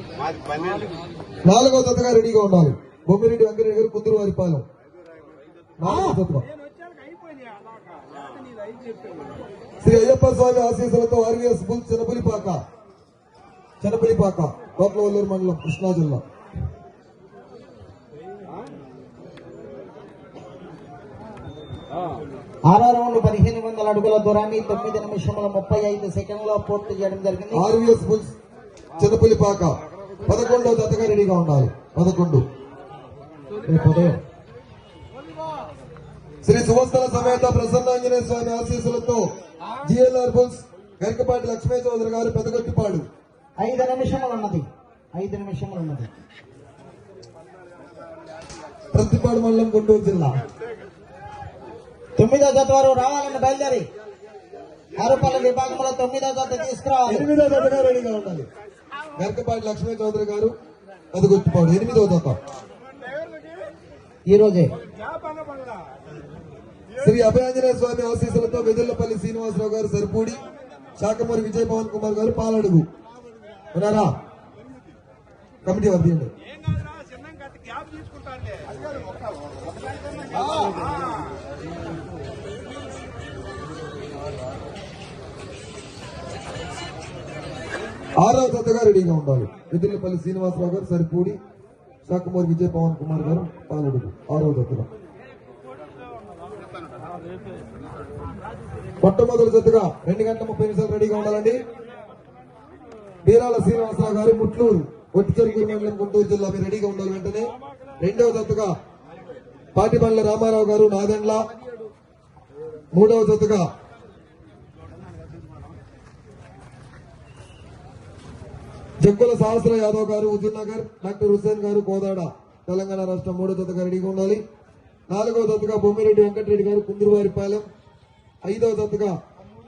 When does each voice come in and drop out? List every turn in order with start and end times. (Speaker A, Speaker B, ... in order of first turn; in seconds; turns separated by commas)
Speaker A: 1.4-4.7, Speaker A: 5.8-6.5, Speaker A: 9.8-12.6, Speaker A: 13.8-16.2, Speaker B: 22.6-27.6, Speaker A: 27.5-28.3, Speaker A: 29.0-29.7, Speaker A: 30.2-32.4, Speaker A: 33.6-34.2, Speaker A: 36.4-39.2, Speaker A: 39.8-43.1, Speaker B: 43.6-46.1, Speaker A: 48.9-50.4, Speaker B: 52.1-53.9, Speaker B: 55.0-57.3, Speaker A: 57.1-58.5, Speaker A: 59.1-60.5, Speaker A: 61.1-62.4, Speaker B: 64.3-64.7, Speaker A: 67.0-70.4, Speaker A: 71.0-72.9, Speaker A: 73.7-74.1, Speaker A: 75.6-76.3, Speaker A: 88.2-91.4, Speaker A: 92.0-94.9, Speaker A: 99.0-101.6, Speaker A: 103.2-108.7, Speaker A: 109.7-111.5, Speaker A: 112.9-113.7, Speaker A: 119.0-124.4, Speaker A: 125.1-127.7, Speaker A: 128.4-129.2